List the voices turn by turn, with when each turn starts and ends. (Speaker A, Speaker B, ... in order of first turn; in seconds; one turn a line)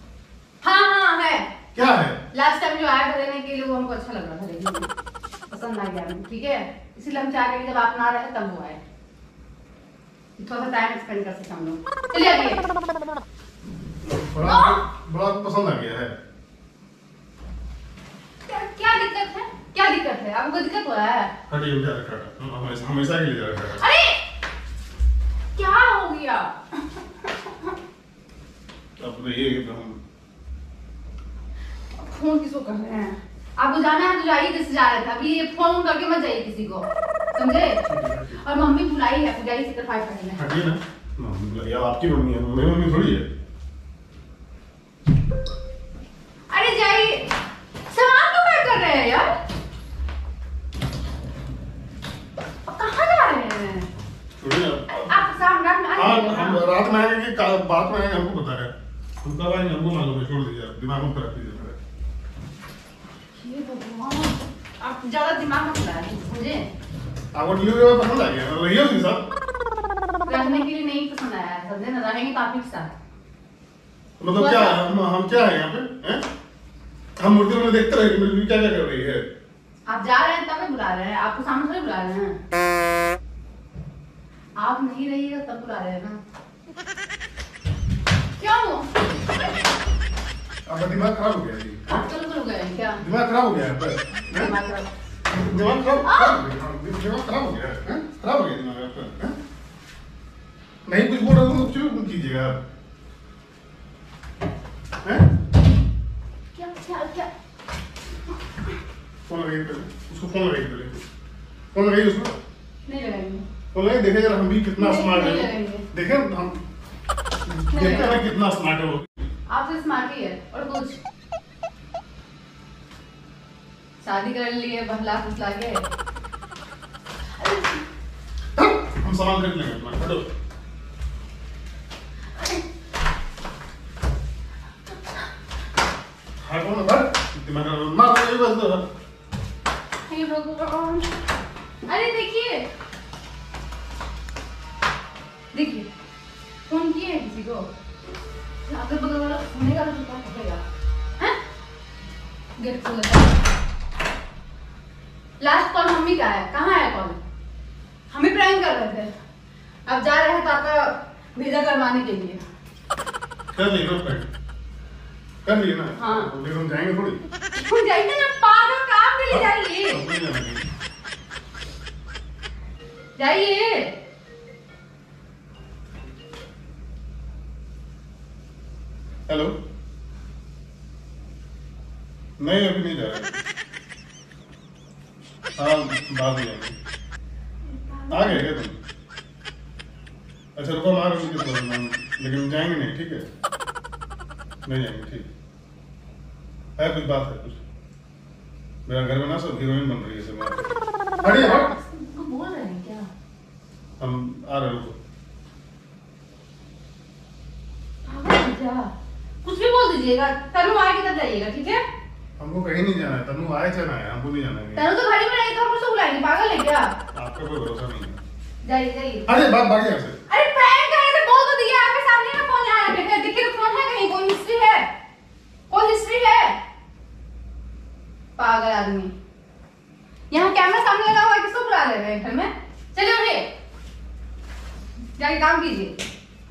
Speaker A: 0.6-1.5
Speaker B: 1.8-2.2
Speaker A: 2.3-4.9
Speaker A: 5.5-8.8
Speaker A: 10.4-12.7
Speaker B: 14.0-16.1
Speaker A: 14.4-14.8
Speaker A: 18.5-21.3
Speaker B: 21.5-23.9
Speaker A: 23.8-24.2
Speaker A: 25.6-27.8
Speaker B: 29.0-30.0
Speaker A: 31.9-37.8
Speaker B: 37.9-38.4
Speaker A: 38.3-40.4
Speaker B: 40.4-43.3
Speaker A: 46.5-47.3
Speaker A: 47.9-49.4
Speaker A: 52.7-53.9
Speaker B: 54.4-55.2
Speaker A: 55.1-56.6
Speaker B: 56.0-61.8
Speaker A: 63.3-66.7
Speaker B: 67.3-69.3
Speaker A: 70.2-73.0
Speaker B: 74.2-76.2
Speaker A: 74.3-74.8
Speaker B: 77.2-79.2
Speaker A: 79.9-82.4
Speaker A: 84.6-86.2
Speaker A: 88.4-89.3
Speaker B: 90.7-91.9
Speaker A: 91.9-93.0
Speaker B: 93.0-94.5
Speaker A: 94.3-94.9
Speaker B: 95.3-99.4
Speaker A: 96.0-96.4
Speaker B: 100.9-102.6
Speaker A: 106.5-107.3
Speaker B: 109.3-111.0
Speaker B: 111.7-112.3
Speaker A: 112.9-113.5
Speaker B: 113.7-116.6
Speaker A: 114.8-115.9
Speaker B: 117.5-119.2
Speaker A: 117.7-118.2
Speaker A: 119.5-121.0
Speaker A: 124.0-125.8
Speaker A: 127.4-127.8
Speaker B: 128.6-130.2
Speaker A: 132.3-132.6
Speaker B: 136.4-138.9
Speaker A: 140.1-141.1
Speaker A: 141.9-142.7
Speaker A: 145.5-145.9
Speaker A: 146.7-147.7
Speaker A: 148.7-150.6
Speaker A: 152.6-153.4
Speaker A: 155.4-157.2
Speaker A: 158.1-159.1
Speaker A: 159.9-162.4
Speaker B: 163.5-164.3
Speaker B: 165.4-167.2
Speaker A: 166.0-166.3
Speaker A: 167.5-170.0
Speaker B: 169.3-170.6
Speaker A: 173.2-173.9
Speaker B: 179.3-179.5
Speaker B: 182.4-183.4
Speaker B: 185.6-186.8
Speaker A: 187.7-188.4
Speaker B: 188.1-188.8
Speaker B: 190.6-193.3
Speaker B: 194.7-195.3
Speaker B: 196.8-197.6
Speaker B: 198.9-200.7
Speaker B: 201.2-201.7
Speaker A: 201.2-203.1
Speaker B: 204.0-205.0
Speaker A: 208.1-208.9
Speaker A: 209.4-211.8
Speaker B: 212.4-214.9
Speaker A: 214.8-216.9
Speaker B: 217.1-218.2
Speaker A: 218.7-219.3
Speaker B: 219.3-220.2
Speaker A: 220.3-224.9
Speaker A: 225.7-226.6
Speaker A: 228.4-229.1
Speaker A: 230.3-233.5
Speaker A: 235.2-236.0